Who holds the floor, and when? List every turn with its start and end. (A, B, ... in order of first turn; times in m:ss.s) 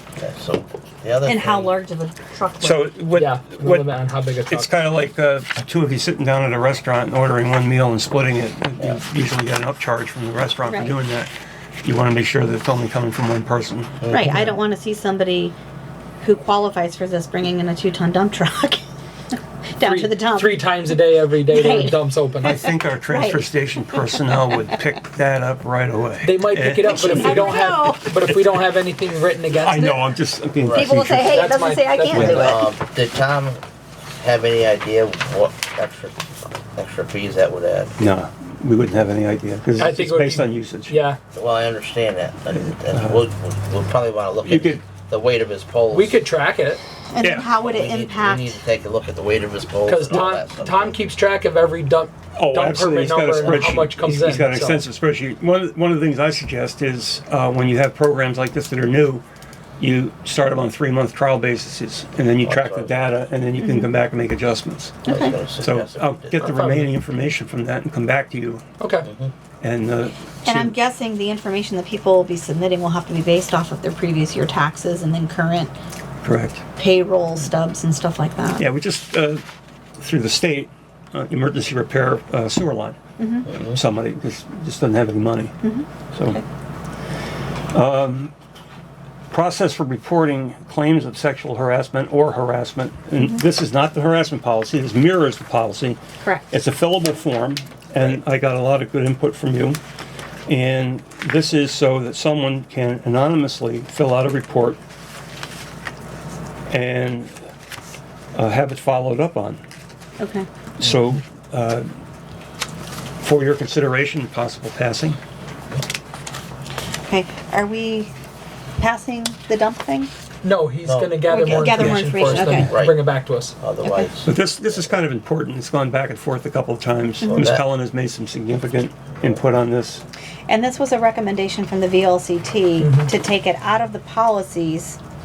0:00.2-0:01.8 A
0:01.2-0:03.0 B
0:02.6-0:03.9 C
0:03.1-0:04.8 D
0:04.5-0:11.3 C
0:10.6-0:10.9 B
0:11.8-0:14.5 C
0:14.0-0:14.3 A
0:14.1-0:15.6 B
0:16.2-0:21.0 B
0:19.8-0:22.6 D
0:21.5-0:24.2 B
0:22.4-0:27.6 C
0:26.2-0:30.0 D
0:26.8-0:28.1 B
0:29.6-0:31.5 C
0:30.6-0:31.0 A
0:30.8-0:32.6 B
0:31.2-0:32.5 D
0:32.1-0:32.5 C
0:32.4-0:33.6 A
0:34.2-0:36.2 A
0:36.8-0:37.9 A
0:38.0-0:41.0 C
0:39.8-0:41.2 D
0:41.3-0:46.2 A
0:42.5-0:43.2 C
0:44.4-0:44.8 C
0:45.9-0:46.8 D
0:47.1-0:48.6 B
0:47.2-0:47.5 C
0:47.6-0:51.0 A
0:49.8-0:54.8 D
0:52.4-0:59.2 C
0:59.8-1:05.1 C
1:02.4-1:03.0 A
1:03.6-1:03.9 B
1:05.1-1:05.4 B
1:05.1-1:06.6 A
1:05.6-1:08.6 C
1:06.4-1:06.9 D
1:08.8-1:09.1 D
1:09.0-1:09.3 A
1:09.6-1:10.8 C
1:10.5-1:15.7 B
1:16.2-1:16.6 C
1:16.8-1:18.7 B
1:18.6-1:19.4 C
1:20.0-1:23.0 C
1:23.2-1:23.5 B
1:23.6-1:25.6 C
1:25.6-1:26.4 B
1:26.1-1:26.4 C
1:27.7-1:28.3 C
1:29.3-1:36.0 C
1:36.5-1:39.8 C
1:40.5-1:44.8 C
1:46.7-1:47.3 C
1:48.4-1:49.6 C
1:50.2-1:50.5 B
1:50.8-1:51.9 C
1:53.2-1:55.2 C
1:57.1-1:58.1 B
1:58.8-2:00.1 B
2:00.4-2:03.6 D
2:00.8-2:01.6 A
2:01.2-2:02.7 B
2:01.7-2:02.2 C
2:02.7-2:04.9 A
2:03.8-2:04.1 B
2:04.2-2:10.0 C
2:07.2-2:07.6 B
2:07.4-2:07.7 A
2:10.5-2:15.0 B
2:12.8-2:13.1 D